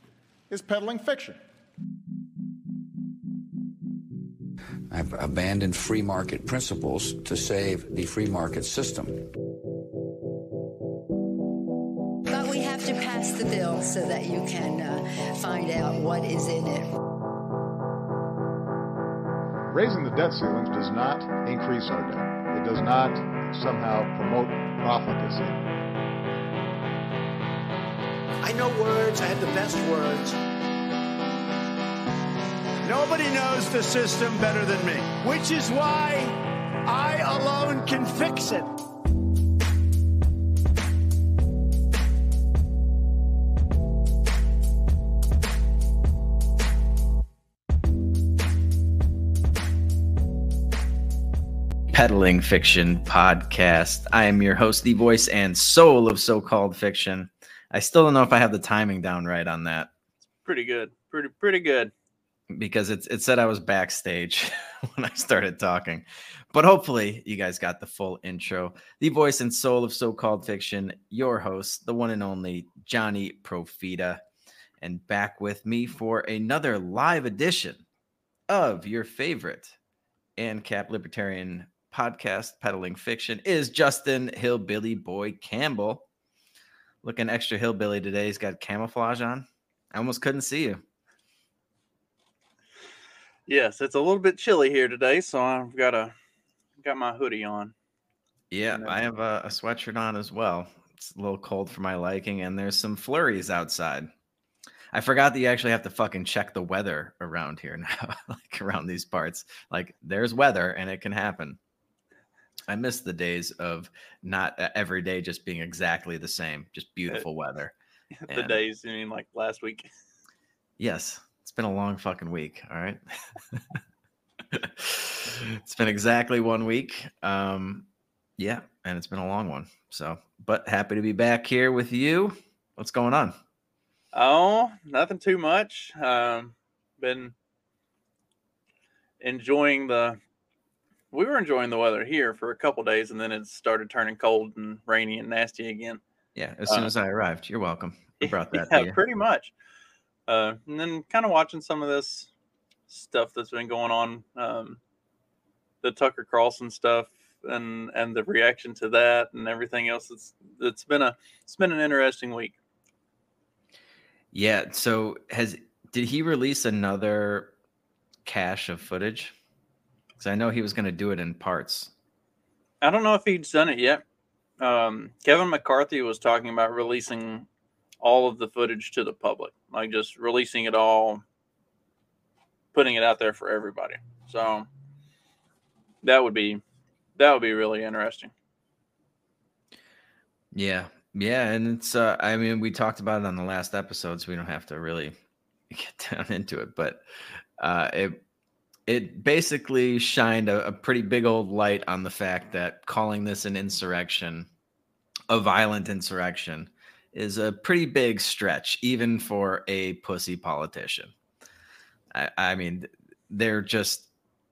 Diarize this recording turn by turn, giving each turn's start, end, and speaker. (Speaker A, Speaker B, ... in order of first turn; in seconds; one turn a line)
Speaker A: 0.5-1.4
Speaker B: 4.9-9.2
Speaker C: 12.3-17.0
Speaker A: 19.7-25.6
Speaker D: 28.4-30.4
Speaker D: 32.8-38.7
Speaker E: 51.9-59.9
Speaker F: 60.5-61.9
Speaker E: 62.5-74.2
Speaker E: 74.8-77.8
Speaker E: 78.5-79.8
Speaker E: 80.4-86.0
Speaker E: 87.0-90.8
Speaker F: 93.5-96.1
Speaker F: 96.8-97.7
Speaker E: 98.5-104.1
Speaker E: 104.9-111.6
Speaker E: 112.7-117.7
Speaker F: 118.2-119.9
Speaker E: 118.3-118.6
Speaker E: 120.8-123.8
Speaker E: 124.5-127.9
Speaker E: 128.4-133.3
Speaker F: 134.1-137.3
Speaker F: 139.2-140.2
Speaker F: 141.1-146.0
Speaker E: 146.3-149.0
Speaker F: 148.2-149.5
Speaker F: 150.3-152.3
Speaker F: 152.9-154.8
Speaker F: 155.8-162.6
Speaker E: 164.3-167.5
Speaker E: 168.2-169.3
Speaker E: 170.2-171.9
Speaker F: 172.8-174.0
Speaker F: 174.6-177.5
Speaker F: 178.0-181.2
Speaker F: 182.7-184.7
Speaker F: 186.0-186.6
Speaker F: 187.2-188.3
Speaker E: 190.5-195.2
Speaker E: 195.7-197.0
Speaker E: 197.6-198.2
Speaker E: 198.9-204.5
Speaker E: 205.3-211.1
Speaker E: 212.1-214.1